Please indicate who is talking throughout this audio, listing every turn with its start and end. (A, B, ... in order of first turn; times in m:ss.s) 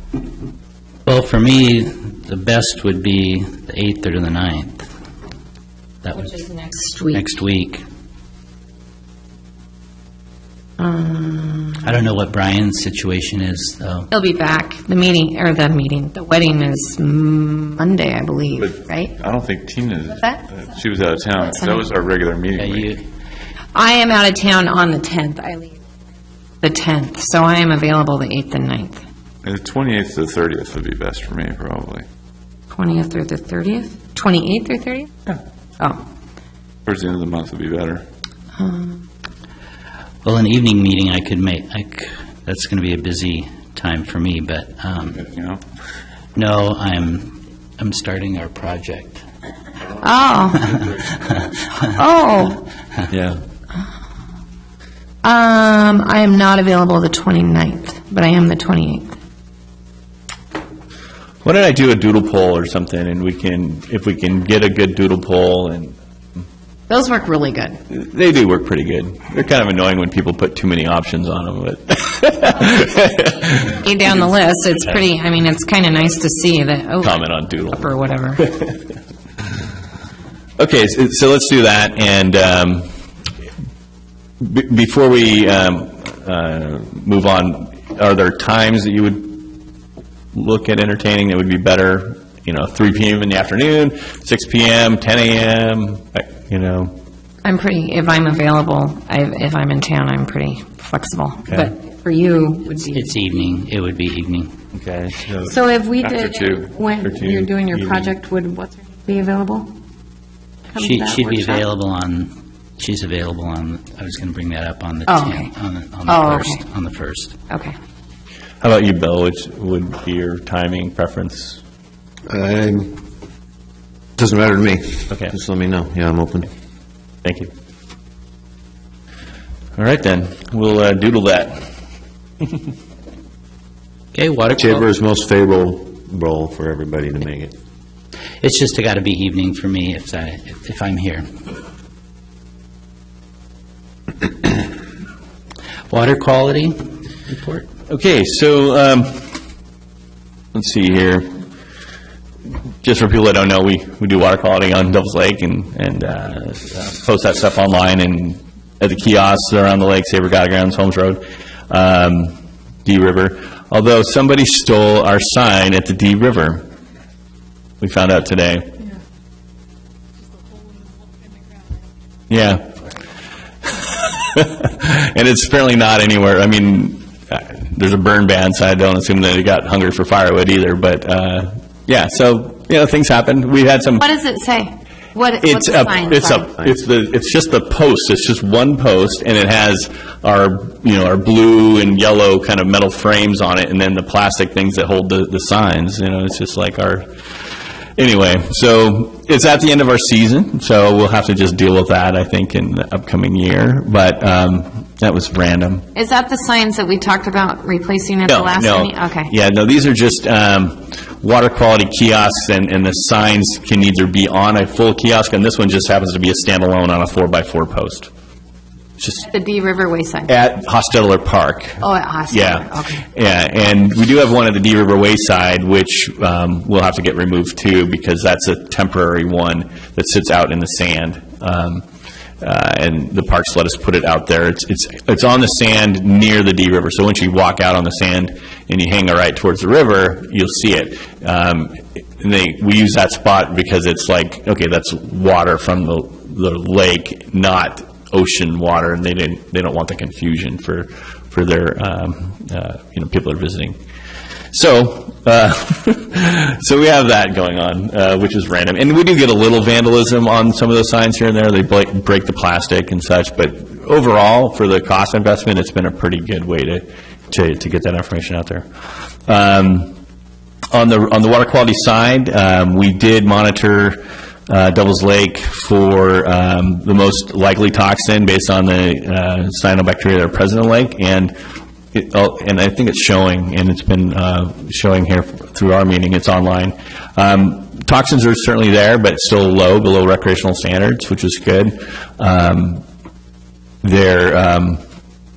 0:01.0-0:04.8 A
0:06.0-0:06.3 A
0:06.2-0:07.2 B
0:07.1-0:07.8 A
0:10.8-0:11.8 B
0:11.8-0:14.1 A
0:14.1-0:19.1 B
0:18.6-0:23.0 C
0:20.2-0:20.4 B
0:21.4-0:21.9 B
0:22.6-0:23.0 A
0:23.7-0:25.8 B
0:26.6-0:29.0 B
0:29.4-0:32.0 C
0:32.7-0:35.1 B
0:36.8-0:38.0 C
0:38.6-0:39.0 B
0:40.2-0:45.3 A
0:45.2-0:45.6 C
0:46.3-0:49.2 A
0:50.0-0:50.8 B
0:50.7-0:51.8 A
0:51.9-0:52.7 B
0:55.2-0:59.1 B
1:01.4-1:06.0 D
1:06.9-1:07.8 B
1:07.9-1:14.3 D
1:13.8-1:18.5 B
1:17.0-1:18.6 D
1:20.6-1:22.9 D
1:24.4-1:29.6 D
1:30.3-1:36.9 D
1:37.4-1:43.1 B
1:41.5-1:41.7 D
1:42.9-1:44.5 A
1:44.7-1:45.4 D
1:45.4-1:49.7 B
1:46.0-1:46.7 C
1:47.2-1:48.0 D
1:50.7-1:51.6 B
1:50.8-1:57.4 A
1:55.1-1:55.5 B
1:56.0-1:56.6 B
1:57.5-1:57.8 B
1:58.6-2:01.6 D
2:02.3-2:03.0 E
2:04.2-2:06.5 E
2:07.2-2:07.5 D
2:09.8-2:11.7 D
2:14.1-2:14.8 A
2:14.5-2:17.5 E
2:18.4-2:21.3 A
2:25.9-2:27.6 A
2:27.9-2:29.3 D
2:30.5-2:31.3 D
2:32.8-2:46.7 D
2:47.8-2:48.7 D
2:52.3-2:52.8 D
2:53.8-3:04.1 D
3:04.0-3:06.5 B
3:05.4-3:17.1 D
3:18.0-3:25.8 D
3:25.9-3:29.3 B
3:28.3-3:38.1 D
3:39.2-3:40.3 B
3:40.3-3:51.8 D
3:41.8-3:43.0 B
3:52.4-4:13.8 D
4:14.5-4:28.6 D
4:29.2-4:29.9 D
4:30.7-4:41.3 D
4:41.9-4:52.8 D
4:53.8-4:54.8 D